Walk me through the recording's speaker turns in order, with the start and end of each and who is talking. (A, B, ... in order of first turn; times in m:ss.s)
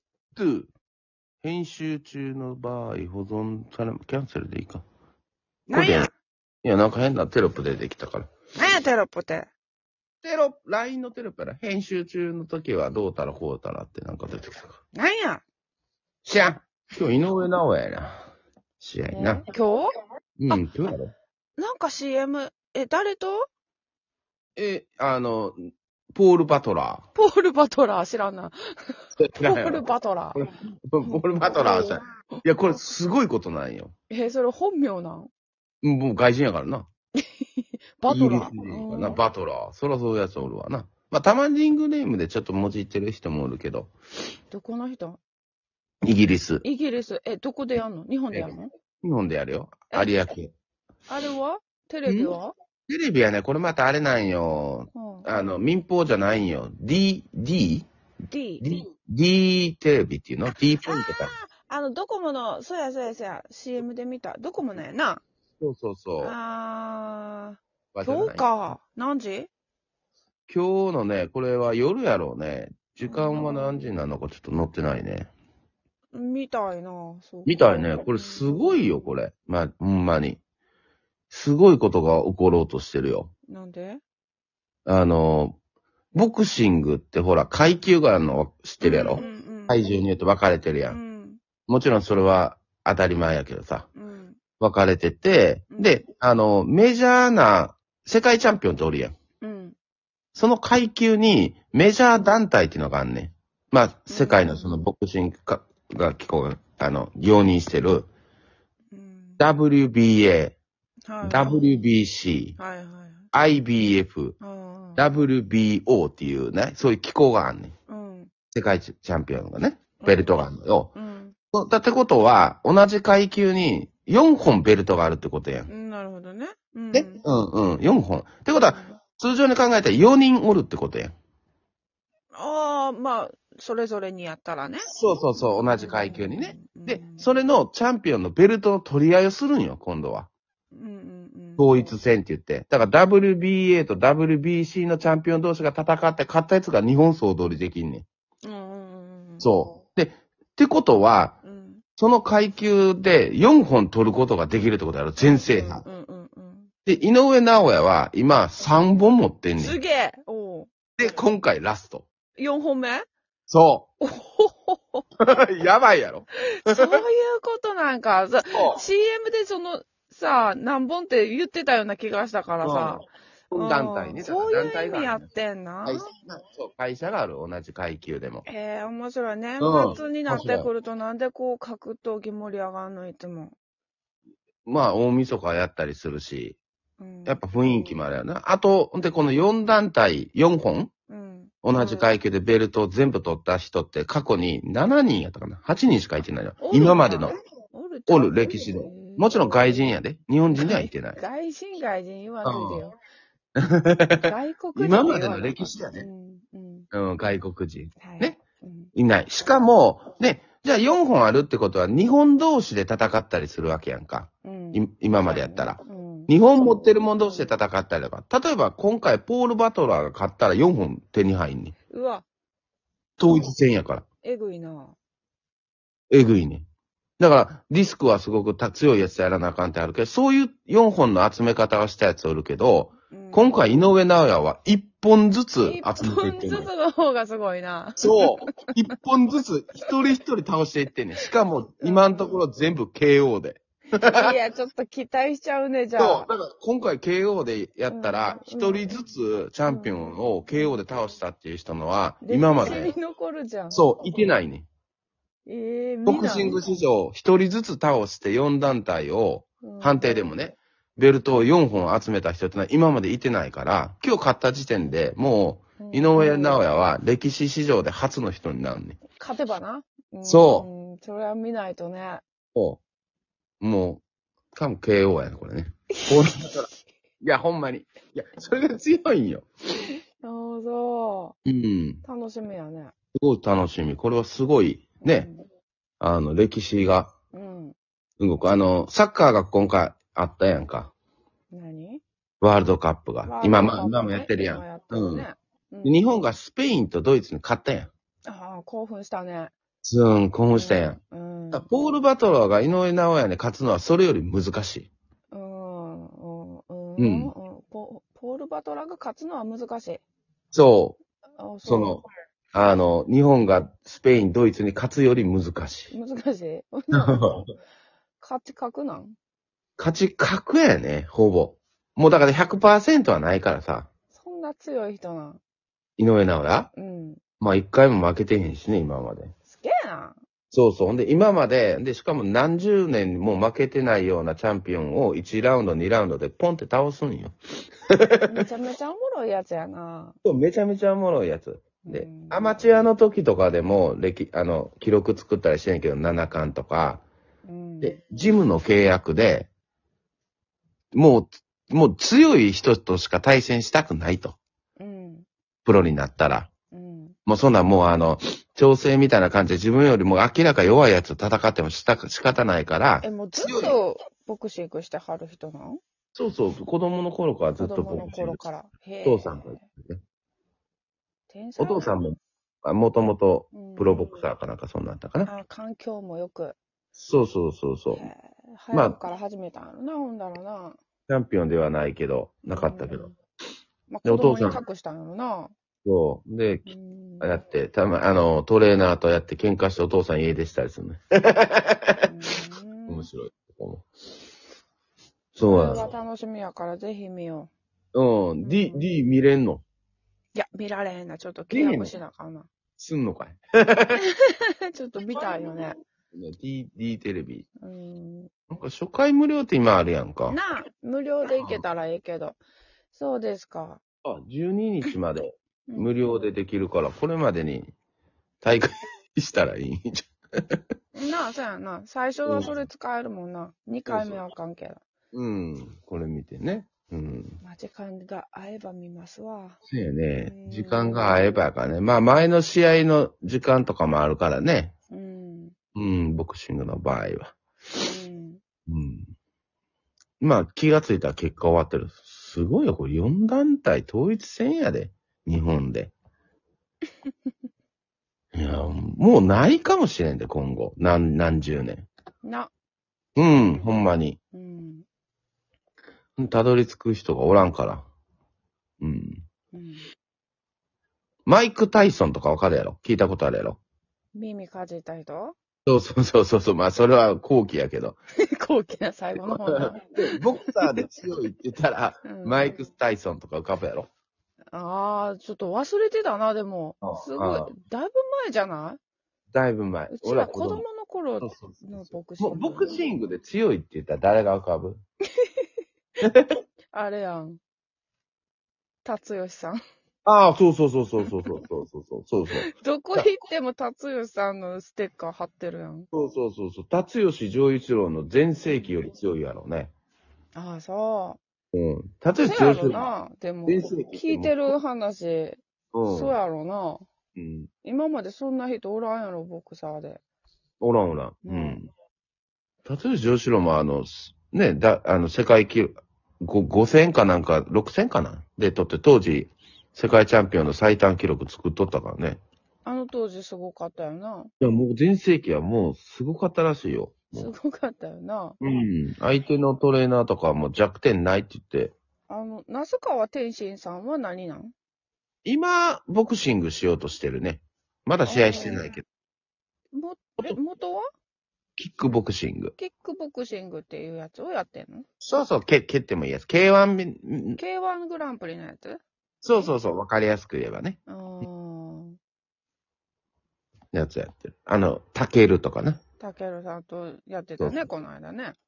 0:00.3-0:00.7 A
0:01.4-0:04.8 A
0:05.7-0:06.1 B
0:05.7-0:06.1 A
0:06.6-0:08.3 A
0:08.6-0:09.5 B
0:10.2-0:14.8 A
0:14.9-0:15.4 B
0:16.2-0:18.2 A
0:18.8-0:19.4 A
0:19.1-0:19.9 B
0:20.4-0:21.1 A
0:21.6-0:23.5 B
0:24.6-0:27.0 A
0:27.1-0:30.4 B
0:29.2-0:29.8 A
0:30.3-0:33.9 A
0:31.0-0:32.8 B
0:34.1-0:35.3 B
0:35.8-0:36.9 A
0:37.2-0:39.2 B
0:38.0-0:43.9 A
0:44.5-0:45.2 B
0:46.0-0:46.6 A
0:46.6-0:48.7 B
0:48.3-0:50.5 A
0:51.1-0:52.5 B
0:52.0-0:52.3 A
0:52.9-0:57.9 A
0:54.9-0:55.3 B
0:58.3-0:58.8 B
0:58.6-1:01.3 A
1:00.8-1:05.2 B
1:05.6-1:06.3 A
1:06.2-1:09.5 B
1:07.9-1:08.5 A
1:10.5-1:15.3 A
1:13.0-1:13.8 B
1:16.1-1:19.1 B
1:17.4-1:20.4 A
1:21.3-1:23.3 A
1:23.5-1:24.0 B
1:24.8-1:25.6 A
1:26.1-1:31.0 A
1:28.8-1:29.8 B
1:30.9-1:31.4 B
1:31.7-1:33.9 A
1:33.9-1:34.4 B
1:34.6-1:39.1 A
1:35.7-1:36.0 B
1:39.4-1:39.8 B
1:40.3-1:48.1 A
1:44.1-1:44.8 B
1:48.9-1:49.4 B
1:49.4-1:50.6 A
1:51.0-1:51.7 B
1:51.2-1:52.6 A
1:52.6-1:53.2 B
1:53.3-1:54.4 A
1:54.4-1:55.1 B
1:55.0-1:57.7 A
1:57.9-1:58.3 B
1:58.5-2:00.9 A
2:00.0-2:00.3 B
2:00.9-2:01.4 B
2:01.5-2:05.7 A
2:05.7-2:07.2 B
2:06.9-2:11.1 A
2:08.6-2:09.0 B
2:12.3-2:17.3 B
2:14.8-2:20.3 A
2:20.7-2:22.0 B
2:21.6-2:28.0 A
2:28.4-2:29.5 B
2:29.4-2:31.4 A
2:31.4-2:31.8 B
2:32.0-2:35.8 A
2:35.2-2:36.7 B
2:36.8-2:39.8 A
2:39.6-2:40.7 B
2:41.0-2:42.0 A
2:42.4-2:43.1 B
2:43.5-2:43.9 A
2:44.0-2:45.0 B
2:45.2-2:46.9 A
2:46.5-2:56.1 B
2:48.5-2:48.8 A
2:52.6-2:55.3 A
2:55.8-2:58.4 A
2:58.4-3:03.5 B
2:59.6-3:00.7 A
3:04.6-3:06.6 A
3:07.0-3:08.0 B
3:07.2-3:10.9 A
3:11.1-3:12.1 B
3:11.6-3:17.4 A
3:16.6-3:19.9 B
3:18.1-3:21.2 A
3:20.5-3:23.0 B
3:22.4-3:22.9 A
3:23.6-3:26.0 A
3:24.2-3:26.9 B
3:26.9-3:28.4 A
3:28.0-3:28.9 B
3:28.9-3:41.7 A
3:34.4-3:36.3 B
3:37.2-3:37.5 B
3:41.9-3:42.2 B
3:43.2-3:44.0 A
3:44.2-3:45.0 B
3:46.1-3:46.6 A
3:47.2-3:56.7 A
3:53.1-3:53.7 B
3:55.6-3:58.7 B
3:58.0-4:04.3 A
4:01.8-4:02.4 B
4:04.1-4:06.3 B
4:06.0-4:12.9 A
4:07.9-4:09.0 B
4:09.6-4:10.8 B
4:12.2-4:13.8 B
4:13.7-4:14.6 A
4:15.4-4:16.6 B
4:16.0-4:29.0 A
4:19.6-4:20.4 B
4:25.8-4:26.6 B
4:29.1-4:32.2 B
4:30.2-4:30.7 A
4:32.5-4:32.8 A
4:33.6-4:34.0 A
4:34.5-4:36.7 A
4:37.2-4:39.8 A
4:40.2-4:41.3 B
4:41.4-4:42.0 A
4:42.0-4:42.9 B
4:43.1-4:45.3 A
4:45.0-4:45.4 B
4:46.0-4:47.1 A
4:47.3-4:47.8 B
4:48.2-4:50.9 A
4:51.5-4:52.0 B
4:52.4-4:55.3 A
4:53.2-4:56.0 B
4:55.8-4:57.9 A
4:58.2-4:59.5 B
4:59.8-5:01.0 A
5:00.5-5:01.7 B
5:01.5-5:04.9 A
5:05.3-5:10.0 B
5:07.0-5:07.3 A
5:10.5-5:11.0 A
5:11.4-5:12.0 B
5:11.6-5:15.9 A
5:15.9-5:17.4 B
5:17.0-5:17.5 A
5:18.2-5:19.1 B
5:19.8-5:23.9 A
5:24.1-5:25.4 B
5:26.0-5:26.7 A
5:26.7-5:27.2 B
5:27.4-5:29.3 A
5:29.5-5:30.2 B
5:30.5-5:37.3 A
5:37.9-5:38.3 A
5:38.3-5:40.2 B
5:40.2-5:47.0 A
5:41.8-5:42.7 B
5:47.4-5:48.0 B
5:47.8-5:49.5 A
5:50.9-5:54.4 A
5:54.8-5:55.2 B
5:55.6-5:56.5 A
5:56.7-5:57.2 B
5:57.3-6:03.8 A
6:03.0-6:05.8 B
6:06.1-6:08.4 A
6:07.6-6:09.6 B
6:09.0-6:10.0 A
6:11.3-6:12.0 B
6:11.6-6:15.3 A
6:13.5-6:14.1 B
6:15.2-6:16.6 B
6:17.0-6:18.1 A
6:17.9-6:20.8 B
6:18.7-6:19.0 A
6:21.1-6:23.1 A
6:22.5-6:23.1 B
6:23.9-6:25.5 B
6:24.0-6:24.6 A
6:25.8-6:26.7 A
6:26.6-6:27.4 B
6:27.2-6:32.0 A
6:32.0-6:33.1 B
6:32.9-6:33.8 A
6:35.4-6:37.5 B
6:35.4-6:35.9 A
6:37.9-6:39.6 A
6:38.4-6:38.9 B
6:40.3-6:42.5 B
6:41.5-6:42.0 A
6:42.8-6:44.0 A
6:43.9-6:45.8 B
6:45.2-6:47.4 A
6:47.6-6:48.3 B
6:48.5-6:50.4 A
6:50.3-6:52.4 B
6:51.4-6:51.6 A
6:52.9-6:53.8 B
6:54.0-6:57.7 A
6:55.7-6:56.0 B
6:58.4-7:00.1 A
7:00.9-7:04.8 B
7:02.2-7:02.5 A
7:03.9-7:04.2 A
7:05.1-7:07.4 A
7:07.4-7:09.6 B
7:09.7-7:14.7 A
7:10.2-7:11.4 B
7:14.9-7:15.5 B
7:15.7-7:17.3 A
7:17.8-7:18.4 B
7:18.7-7:19.1 A
7:20.2-7:25.9 A
7:28.3-7:31.9 A
7:32.2-7:32.5 B
7:33.2-7:34.2 A
7:34.3-7:34.8 B
7:36.2-7:37.9 A
7:38.8-7:39.2 A
7:39.5-7:39.8 B
7:41.2-7:43.6 A
7:44.1-7:45.3 B
7:45.6-7:48.0 A
7:48.2-7:50.2 B
7:49.2-7:53.9 A
7:52.0-7:52.7 B
7:54.5-7:58.8 B
7:56.8-7:57.5 A
7:59.3-8:00.6 A
7:59.9-8:02.8 B
8:01.2-8:04.8 A
8:06.0-8:06.3 A
8:06.7-8:07.4 B
8:08.8-8:09.6 B
8:10.0-8:13.1 A
8:11.0-8:11.4 B
8:12.4-8:15.9 B
8:15.9-8:19.7 A
8:20.3-8:21.2 B
8:21.5-8:22.9 A
8:22.2-8:26.8 B
8:23.5-8:24.5 A
8:25.7-8:26.1 A
8:27.2-8:27.5 A
8:27.6-8:30.0 B
8:30.6-8:31.7 A
8:31.2-8:31.6 B
8:32.6-8:42.2 A
8:42.6-8:44.3 B
8:44.4-8:47.3 A
8:47.1-8:48.4 B
8:48.4-8:51.7 A
8:52.1-8:54.5 B
8:55.2-8:58.8 A
8:58.0-8:58.7 B
8:59.7-9:00.8 B
9:01.6-9:02.5 A
9:02.6-9:04.8 B
9:05.0-9:07.4 A
9:07.4-9:08.8 B
9:09.2-9:10.8 A
9:10.9-9:12.0 B
9:13.7-9:15.8 A
9:16.0-9:18.3 B